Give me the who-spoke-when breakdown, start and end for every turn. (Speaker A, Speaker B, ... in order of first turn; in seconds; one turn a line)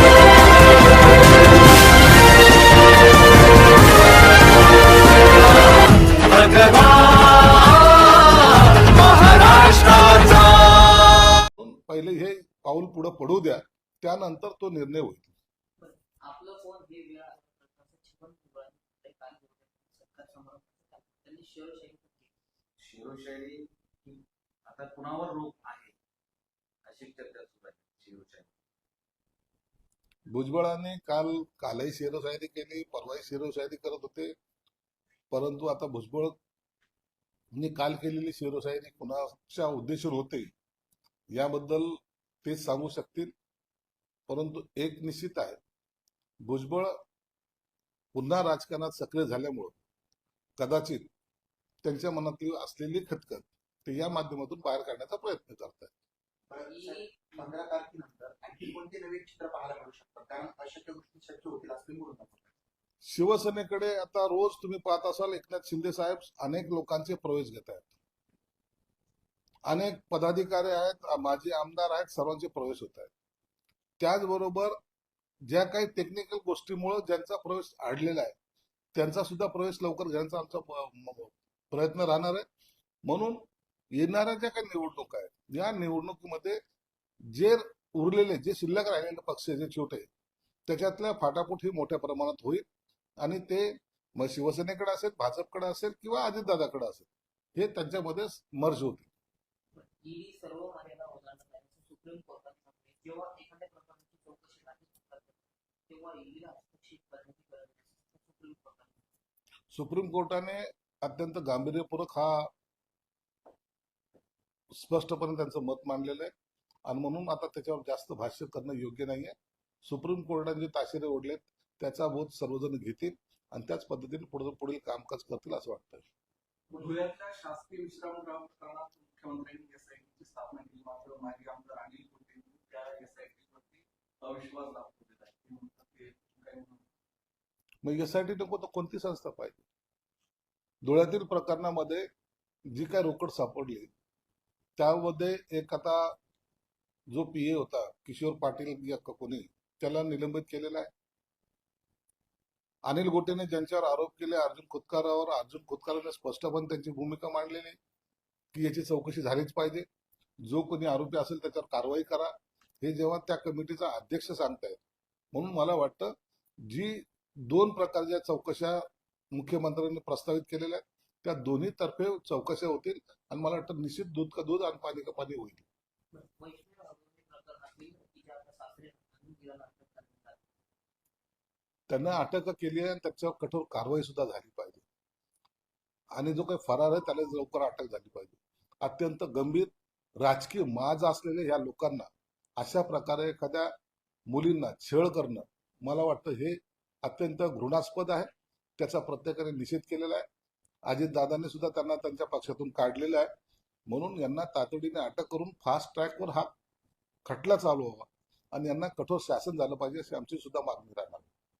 Speaker A: 11.6-15.3
Speaker B: 15.8-22.3
Speaker C: 22.8-25.9
Speaker C: 26.8-28.5
Speaker A: 30.3-34.3
Speaker A: 35.3-36.4
Speaker A: 37.5-40.5
Speaker A: 41.3-43.3
Speaker A: 44.3-45.6
Speaker A: 46.4-47.0
Speaker A: 48.1-49.8
Speaker A: 50.6-51.1
Speaker A: 51.8-55.9
Speaker D: 56.5-62.5
Speaker B: 56.7-57.1
Speaker A: 63.0-67.9
Speaker A: 69.7-73.1
Speaker A: 74.0-74.8
Speaker A: 75.4-78.3
Speaker A: 78.9-82.4
Speaker A: 83.0-83.4
Speaker A: 83.9-86.6
Speaker A: 87.3-90.1
Speaker A: 90.7-92.6
Speaker A: 93.2-99.1
Speaker B: 99.7-109.1
Speaker A: 109.7-112.5
Speaker A: 114.7-116.3
Speaker A: 116.8-126.0
Speaker E: 126.7-136.8
Speaker A: 137.8-139.6
Speaker A: 140.8-142.1
Speaker A: 142.7-143.9
Speaker A: 144.8-146.1
Speaker A: 147.1-150.9
Speaker A: 152.8-157.8
Speaker A: 158.5-159.8
Speaker A: 160.4-164.8
Speaker A: 165.3-175.6
Speaker B: 176.1-180.4
Speaker A: 181.9-184.8
Speaker A: 186.1-193.7
Speaker A: 194.3-200.2
Speaker A: 200.8-203.3
Speaker A: 203.9-206.5
Speaker A: 207.2-211.3